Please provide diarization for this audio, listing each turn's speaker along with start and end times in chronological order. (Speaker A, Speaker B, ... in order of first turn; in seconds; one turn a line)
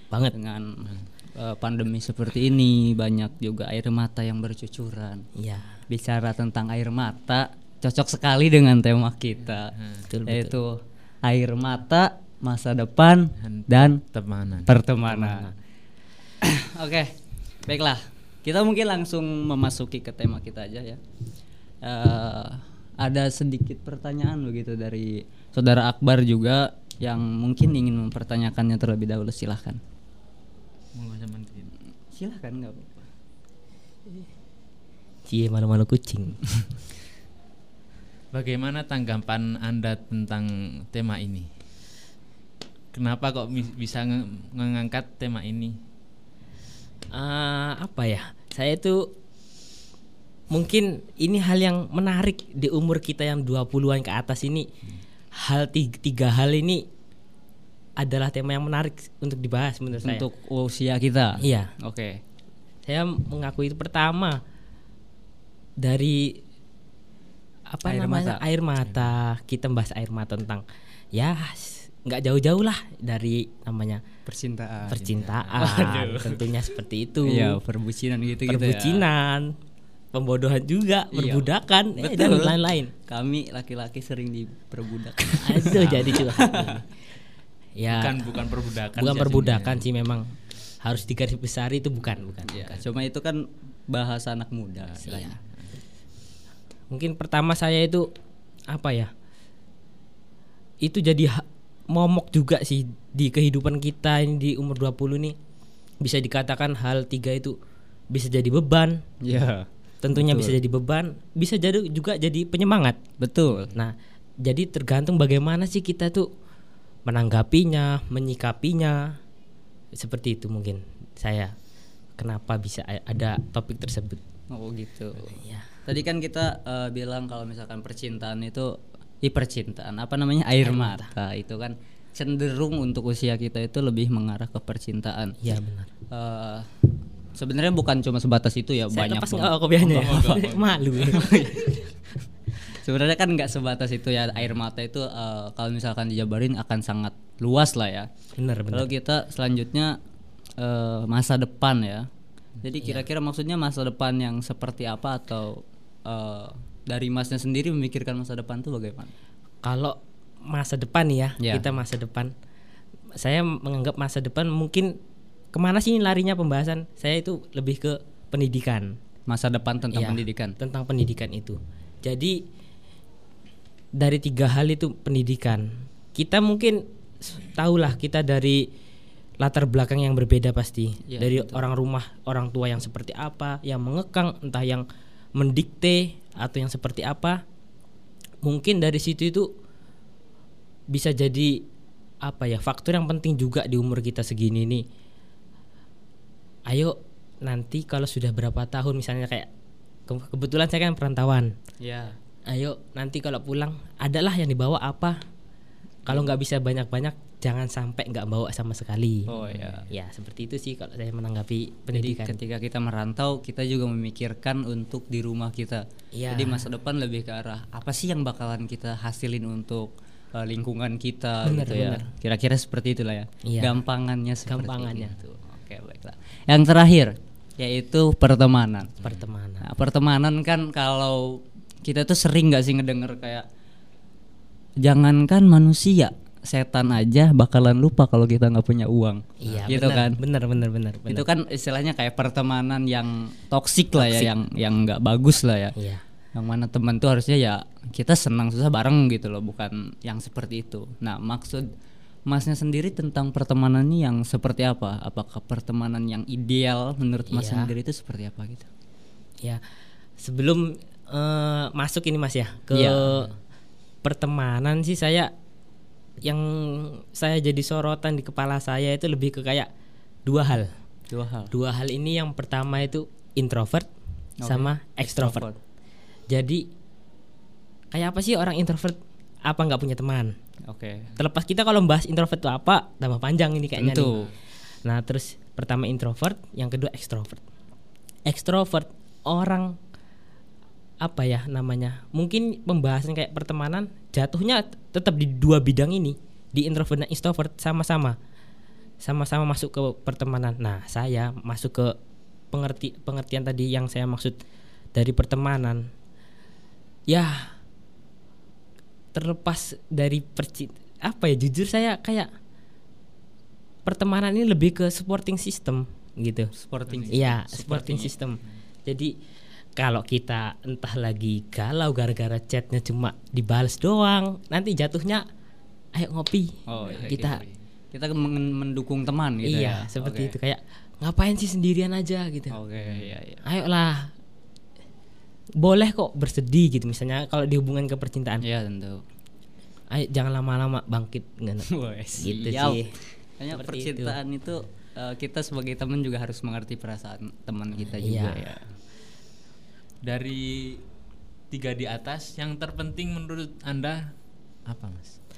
Speaker A: 0.3-5.2
Speaker B: 5.4-5.8
Speaker A: 5.9-9.7
Speaker C: 9.7-10.1
Speaker B: 10.1-10.5
Speaker A: 10.3-14.0
Speaker C: 13.4-14.7
Speaker A: 14.7-15.5
Speaker B: 15.1-15.5
Speaker A: 16.4-21.0
Speaker A: 21.8-29.8
Speaker C: 30.9-31.7
Speaker A: 32.1-33.0
Speaker B: 35.3-36.5
Speaker C: 38.3-41.5
Speaker C: 42.9-45.8
Speaker B: 47.1-49.1
Speaker B: 50.5-54.7
Speaker B: 55.4-56.8
Speaker B: 58.0-60.3
Speaker A: 60.0-62.2
Speaker B: 61.4-61.7
Speaker B: 62.9-64.4
Speaker B: 65.8-66.4
Speaker B: 67.7-70.6
Speaker A: 67.8-68.4
Speaker C: 68.8-69.1
Speaker B: 71.1-74.0
Speaker A: 74.3-76.5
Speaker B: 74.9-77.6
Speaker C: 75.0-76.2
Speaker A: 77.2-79.0
Speaker B: 78.5-79.5
Speaker B: 80.1-82.9
Speaker A: 81.1-86.8
Speaker B: 85.4-87.0
Speaker C: 85.8-86.2
Speaker B: 87.8-88.3
Speaker C: 87.9-89.9
Speaker B: 89.0-90.3
Speaker B: 90.8-92.8
Speaker A: 92.5-95.3
Speaker C: 94.8-95.7
Speaker B: 95.0-95.3
Speaker B: 96.9-98.1
Speaker B: 98.7-99.1
Speaker B: 100.8-105.3
Speaker B: 106.0-107.5
Speaker B: 108.1-109.0
Speaker A: 109.2-110.5
Speaker B: 110.0-113.0
Speaker A: 113.2-113.7
Speaker B: 113.7-116.3
Speaker B: 117.1-119.1
Speaker B: 120.0-121.5
Speaker B: 122.2-124.2
Speaker A: 124.5-135.4
Speaker B: 125.3-125.7
Speaker B: 130.6-131.1
Speaker B: 135.4-135.9
Speaker A: 136.1-136.7
Speaker A: 137.3-140.4
Speaker B: 138.9-141.9
Speaker C: 139.8-141.6
Speaker A: 141.1-141.6
Speaker A: 142.7-148.1
Speaker B: 148.4-148.9
Speaker A: 148.7-150.0
Speaker A: 150.6-152.1
Speaker A: 152.6-159.1
Speaker B: 159.6-162.3
Speaker A: 161.4-161.6
Speaker B: 163.1-164.9
Speaker B: 165.5-169.0
Speaker A: 169.3-170.5
Speaker B: 169.9-172.3
Speaker B: 174.0-178.7
Speaker B: 179.4-187.4
Speaker A: 181.1-181.6
Speaker B: 188.4-189.5
Speaker B: 190.9-191.6
Speaker B: 192.2-194.8
Speaker B: 196.7-199.5
Speaker B: 200.1-201.5
Speaker A: 201.8-202.1
Speaker B: 202.5-205.2
Speaker B: 206.1-209.3
Speaker A: 209.3-209.9
Speaker C: 209.4-209.8
Speaker B: 209.9-212.4
Speaker A: 211.9-229.0
Speaker B: 216.1-216.7
Speaker B: 221.4-222.1
Speaker B: 223.4-223.8
Speaker B: 224.5-225.2
Speaker B: 229.0-229.6
Speaker A: 229.6-233.4
Speaker A: 234.8-240.2
Speaker B: 239.4-241.2
Speaker C: 239.4-239.7
Speaker A: 241.1-245.8
Speaker B: 244.0-244.3
Speaker B: 245.8-246.0
Speaker A: 246.3-251.7
Speaker A: 252.3-258.7
Speaker B: 257.3-257.7
Speaker B: 260.2-263.3
Speaker A: 262.7-263.2
Speaker B: 264.0-265.3
Speaker B: 266.2-269.7
Speaker B: 270.2-270.7
Speaker A: 271.1-271.5
Speaker B: 271.5-273.9
Speaker A: 274.4-275.6
Speaker B: 274.4-275.5
Speaker B: 276.3-276.6
Speaker B: 277.9-280.3
Speaker A: 280.7-281.1
Speaker B: 281.2-284.3
Speaker A: 283.8-284.2
Speaker B: 284.8-287.4
Speaker B: 288.2-289.8
Speaker B: 291.0-298.1
Speaker B: 299.0-301.9
Speaker B: 302.5-304.4
Speaker B: 304.9-305.9
Speaker B: 307.1-307.6
Speaker B: 309.1-312.3
Speaker B: 313.9-316.5
Speaker A: 316.5-318.1
Speaker C: 316.9-317.2
Speaker B: 317.1-319.1
Speaker B: 319.8-325.2
Speaker B: 325.9-327.4
Speaker A: 326.7-327.4
Speaker C: 326.8-327.5
Speaker A: 327.9-330.3
Speaker B: 329.4-332.5
Speaker A: 332.5-333.4
Speaker B: 333.4-334.1
Speaker B: 335.6-338.4
Speaker A: 338.4-339.0
Speaker B: 339.9-342.9
Speaker A: 341.7-348.6
Speaker B: 343.5-344.1
Speaker B: 348.0-348.4
Speaker C: 350.0-350.8
Speaker C: 351.5-354.1
Speaker C: 354.7-355.2